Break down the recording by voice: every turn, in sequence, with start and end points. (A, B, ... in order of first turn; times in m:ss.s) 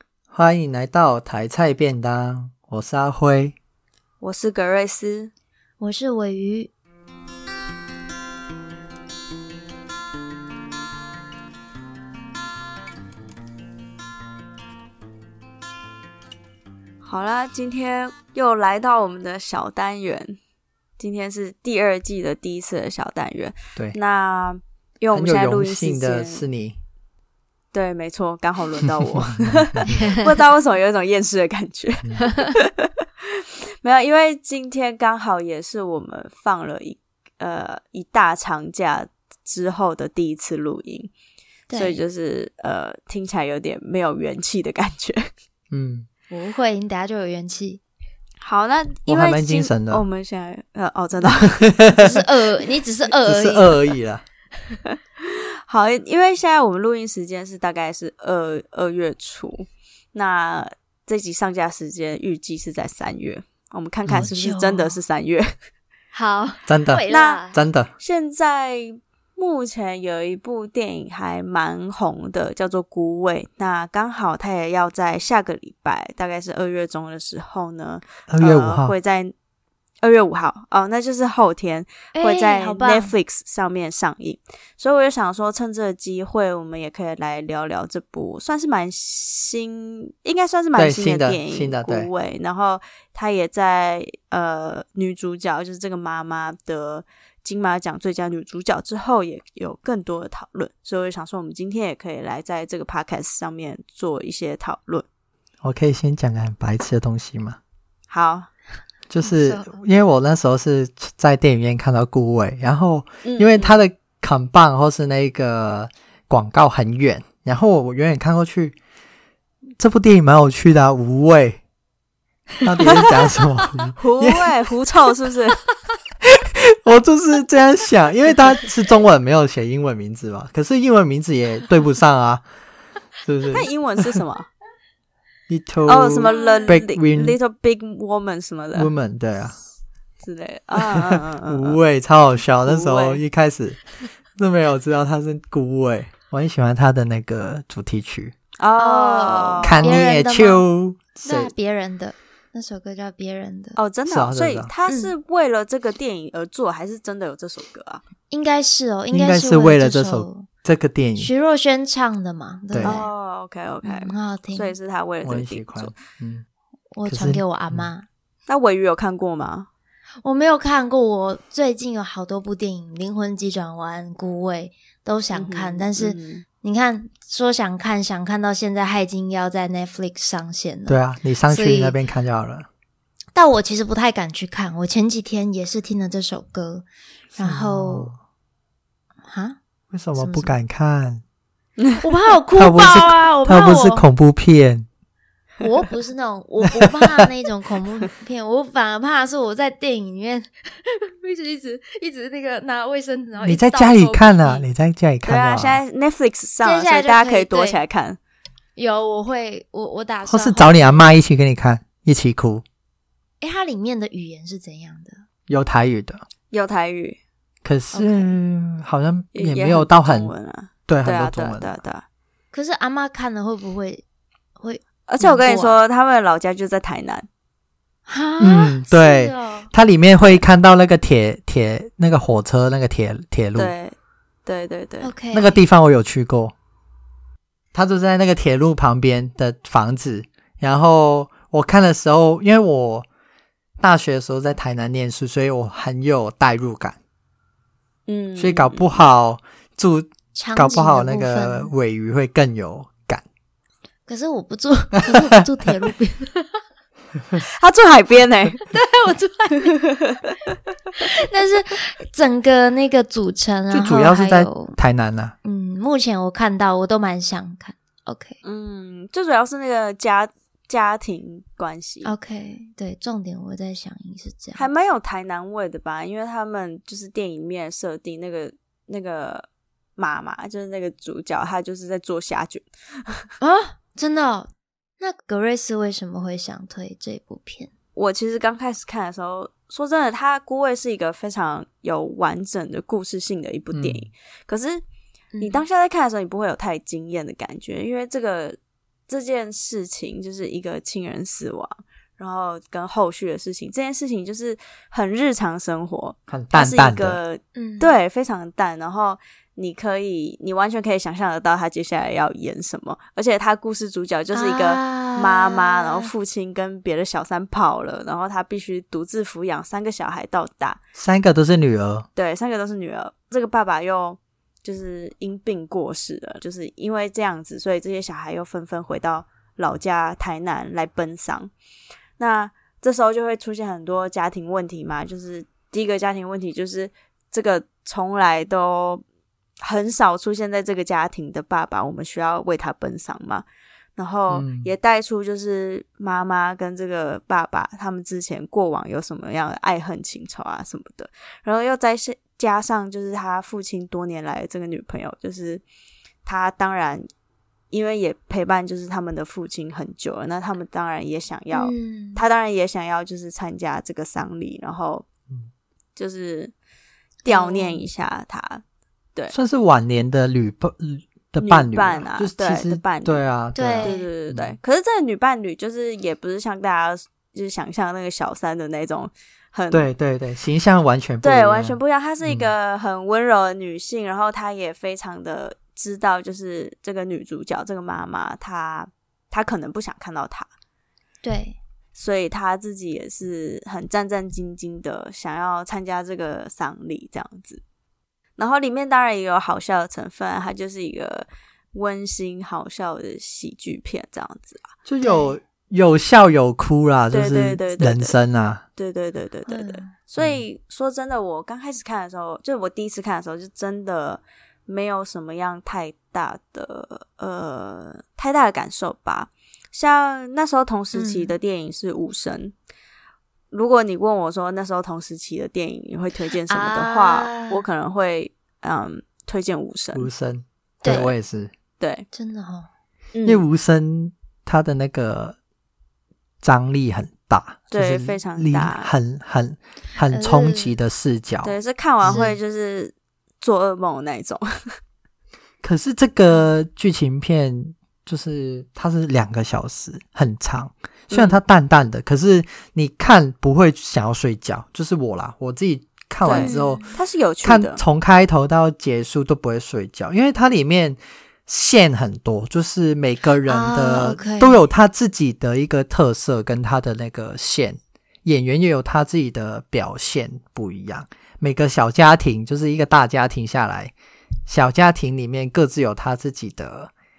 0:00.3-0:03.5 A
0:04.2-0:05.3 B
0:05.8-0:06.7 C
0:17.0-0:20.4 B
0:21.0-0:26.4 B
0:25.1-0:26.8 A
0:27.7-0:32.9 B
0:29.4-0:30.0 A
0:29.9-0:30.3 C
0:32.2-0:32.5 C
0:33.8-0:41.1 B
0:41.7-0:42.0 C
0:41.7-0:45.2 B
0:45.7-0:46.1 A
0:46.3-0:47.8 C
0:48.4-0:51.8 B
0:49.0-0:50.0 A
0:51.8-0:52.2 A
0:52.0-0:53.9 C
0:53.2-0:54.2 A
0:55.2-1:05.5 B
1:04.2-1:05.0 C
1:06.1-1:07.6 C
1:06.7-1:07.9 A
1:07.1-1:07.4 B
1:08.0-1:19.3 B
1:18.3-1:18.9 A
1:20.0-1:45.0 B
1:22.1-1:23.1 C
1:30.8-1:32.1 A
1:45.6-1:47.6 A
1:48.1-1:48.5 B
1:49.1-1:58.8 A
1:49.2-1:49.8 C
1:53.2-1:53.8 B
1:59.8-2:01.6 A
2:02.6-2:04.5 A
2:04.0-2:05.6 B
2:06.6-2:12.4 A
2:13.2-2:14.2 A
2:13.5-2:14.5 B
2:15.5-2:17.4 A
2:15.8-2:18.9 B
2:16.2-2:16.8 C
2:18.7-2:19.6 A
2:20.2-2:21.8 B
2:20.9-2:23.8 A
2:22.6-2:23.2 B
2:24.4-2:28.3 A
2:28.6-2:30.0 B
2:28.8-2:30.6 C
2:29.6-2:31.5 A
2:31.2-2:33.8 C
2:33.8-2:38.0 B
2:34.1-2:34.7 A
2:34.9-2:35.1 C
2:38.3-2:40.5 C
2:39.1-2:41.3 A
2:41.2-2:43.1 C
2:42.7-2:43.0 A
2:42.8-2:46.0 B
2:43.8-2:44.8 C
2:45.2-2:46.4 A
2:46.9-2:48.1 C
2:47.0-2:47.9 A
2:48.5-2:49.7 B
2:50.2-3:02.0 C
2:55.3-2:56.4 B
3:00.9-3:02.7 A
3:03.3-3:08.1 C
3:07.4-3:08.2 A
3:09.3-3:09.6 C
3:09.9-3:11.2 A
3:10.2-3:10.5 C
3:12.0-3:14.0 C
3:12.5-3:14.9 A
3:15.6-3:24.7 C
3:23.4-3:25.8 A
3:25.2-3:28.2 B
3:26.6-3:27.8 C
3:28.8-3:31.1 C
3:30.2-3:32.6 A
3:33.4-3:35.2 C
3:35.5-3:36.2 A
3:36.5-3:37.2 B
3:37.6-3:40.3 A
3:37.9-3:38.4 C
3:39.3-3:42.0 B
3:40.9-3:41.8 A
3:42.5-3:44.0 C
3:44.6-3:45.8 C
3:45.1-3:47.2 B
3:48.1-3:49.7 C
3:48.4-3:53.7 A
3:53.5-3:53.9 B
3:54.4-3:55.1 B
3:55.0-3:55.6 C
3:55.3-3:56.5 A
3:57.7-4:03.1 A
4:03.8-4:07.0 A
4:08.1-4:09.0 B
4:08.4-4:13.2 A
4:10.3-4:11.7 C
4:14.1-4:16.6 C
4:17.6-4:18.6 B
4:18.7-4:19.8 C
4:19.6-4:20.1 B
4:21.0-4:24.8 C
4:23.7-4:25.3 A
4:25.4-4:28.4 C
4:28.4-4:32.1 B
4:32.0-4:34.7 C
4:34.5-4:42.7 B
4:43.4-4:44.5 C
4:45.0-4:47.7 C
4:48.0-4:54.8 B
4:53.7-4:54.1 A
4:55.3-4:55.6 C
4:55.4-4:58.6 B
4:59.1-5:20.8 B
5:06.3-5:07.2 A
5:07.5-5:08.0 C
5:14.3-5:16.1 C
5:20.9-5:22.1 A
5:22.2-5:31.5 B
5:32.2-5:39.0 B
5:39.6-5:43.4 B
5:44.0-5:55.6 B
5:44.3-5:44.7 A
5:56.2-5:57.0 B
5:57.7-6:05.0 B
6:01.5-6:02.2 C
6:06.0-6:06.5 B
6:07.2-6:07.9 C
6:07.2-6:08.6 B
6:09.3-6:14.6 A
6:11.4-6:13.2 B
6:13.5-6:14.1 C
6:13.8-6:19.9 B
6:19.7-6:22.5 A
6:21.2-6:30.5 B
6:31.2-6:31.6 C
6:32.0-6:37.6 B
6:38.4-6:44.6 B
6:44.8-6:48.6 A
6:45.0-6:45.4 C
6:47.1-6:48.1 B
6:48.8-7:02.5 B
6:49.5-6:49.9 C
6:50.2-6:50.4 A
7:00.9-7:01.3 C
7:03.5-7:10.1 B
7:06.5-7:07.6 C
7:09.9-7:11.5 A
7:10.8-7:11.1 C
7:10.8-7:11.1 B
7:11.8-7:12.0 B
7:12.1-7:12.7 C
7:13.1-7:13.4 B
7:13.2-7:15.4 A
7:16.4-7:22.3 A
7:17.7-7:18.9 B
7:20.1-7:20.8 C
7:21.4-7:24.4 B
7:22.1-7:22.3 C
7:25.6-7:36.9 A
7:31.1-7:31.4 B
7:36.2-7:37.8 B
7:36.3-7:36.9 C
7:37.4-7:53.9 A
7:43.4-7:44.6 C
7:54.5-7:56.9 A